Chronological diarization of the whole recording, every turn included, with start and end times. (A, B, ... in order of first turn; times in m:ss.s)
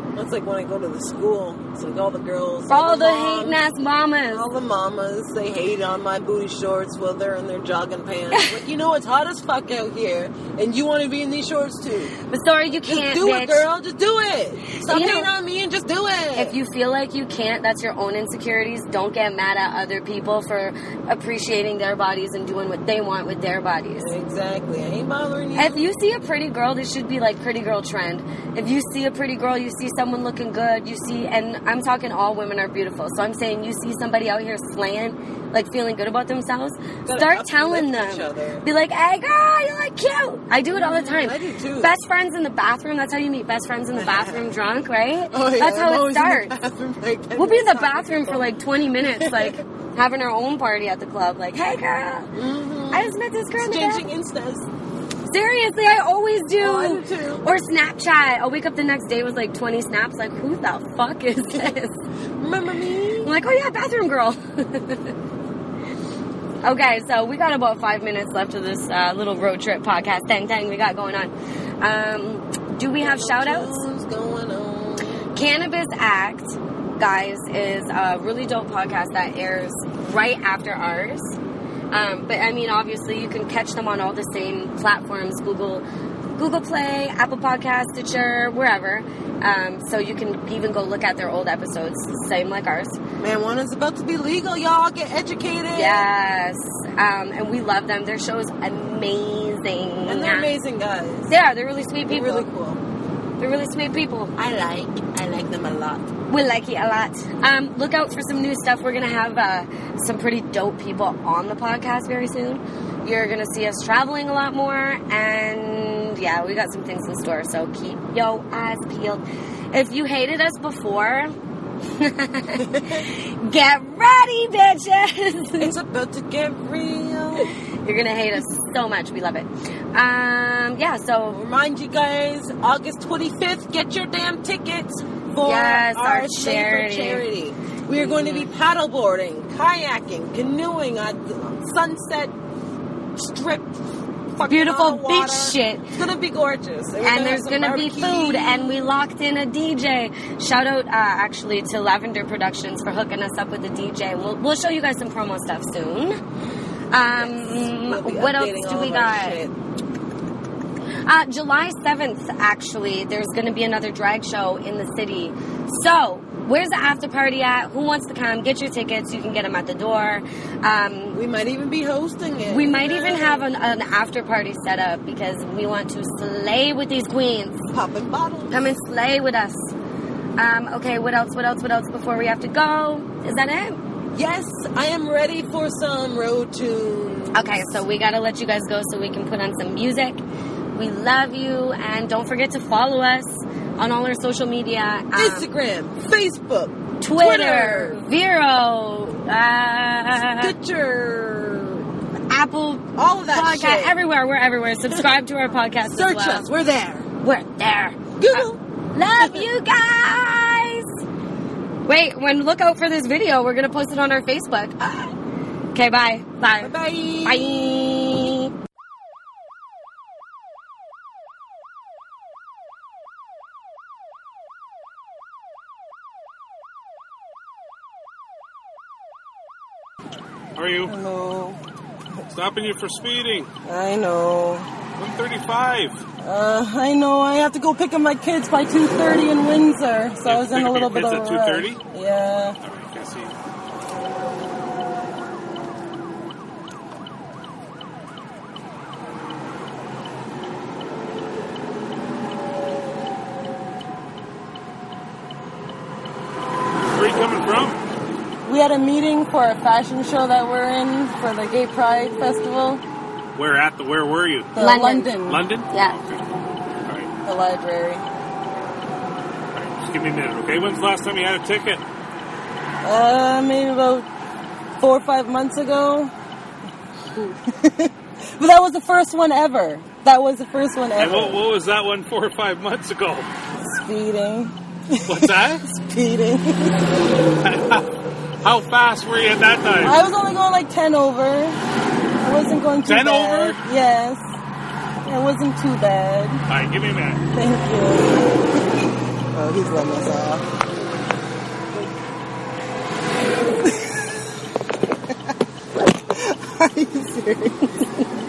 0:00.1-0:03.6 A
0:02.7-0:04.4 B
0:04.3-0:12.1 A
0:12.3-0:13.6 B
0:12.8-0:16.6 A
0:14.8-0:15.3 B
0:16.4-0:24.1 B
0:24.0-0:25.9 A
0:25.6-0:46.6 B
0:37.0-0:38.6 A
0:40.7-0:41.9 A
0:44.0-0:44.6 A
0:45.3-0:49.6 A
0:47.3-0:52.3 B
0:52.3-0:54.6 A
0:52.9-0:54.0 B
0:55.3-1:02.0 B
0:56.6-0:57.4 A
1:02.4-1:03.3 A
1:03.2-1:05.1 B
1:06.6-1:13.8 B
1:13.0-1:15.3 A
1:15.3-1:21.4 B
1:21.9-1:25.8 B
1:26.4-1:33.0 B
1:33.2-1:36.0 A
1:35.7-1:40.5 B
1:40.0-1:41.3 A
1:41.3-1:42.5 B
1:42.1-1:42.8 A
1:43.4-1:44.3 B
1:44.4-1:46.1 A
1:46.3-2:01.3 B
2:01.9-2:05.7 B
2:02.6-2:03.0 A
2:05.6-2:07.5 A
2:07.4-2:11.4 B
2:11.3-2:22.3 A
2:15.4-2:17.2 B
2:18.0-2:18.5 B
2:23.2-2:23.8 A
2:24.3-2:28.9 A
2:24.4-2:25.9 B
2:27.0-2:36.2 B
2:36.9-2:39.4 B
2:37.1-2:39.5 A
2:41.0-2:51.2 B
2:51.1-2:53.5 A
2:52.5-2:57.6 B
2:57.7-2:58.8 A
2:58.5-2:59.7 B
3:00.4-3:03.8 B
3:04.1-3:07.8 A
3:07.3-3:10.2 B
3:10.7-3:15.5 B
3:15.1-3:18.0 A
3:17.0-3:20.5 B
3:20.1-3:21.8 A
3:22.3-3:26.5 B
3:23.0-3:24.0 A
3:25.9-3:27.1 A
3:27.2-3:30.9 B
3:28.2-3:28.6 A
3:29.2-3:29.5 A
3:31.8-3:35.0 B
3:35.7-3:38.5 B
3:36.6-3:38.4 A
3:50.5-3:50.9 C
3:50.9-3:51.6 A
3:52.3-3:53.5 C
3:53.6-3:54.7 A
3:55.0-3:56.0 C
3:56.2-4:02.6 A
4:00.2-4:01.8 C
4:02.6-4:03.3 C
4:16.8-4:17.8 C
4:18.4-4:22.8 A
4:23.3-4:24.6 C
4:24.5-4:25.4 A
4:24.6-4:25.1 B
4:25.2-4:26.2 C
4:25.7-4:26.0 B
4:26.8-4:27.1 C
4:27.2-4:28.0 A
4:29.5-4:31.8 C
4:32.8-4:34.1 A
4:34.8-4:36.1 A
4:37.4-4:41.4 A
4:41.0-4:43.3 C
4:43.6-4:46.8 A
4:45.0-4:45.6 C
4:47.4-4:47.8 C
4:48.4-4:49.9 C
4:49.8-4:51.6 A
4:52.2-4:54.2 A
4:52.8-4:53.6 C
4:55.0-4:56.4 A
4:56.5-4:57.2 C
4:57.3-4:58.6 A
4:59.3-5:00.5 A
5:03.6-5:04.0 A
5:05.8-5:08.0 A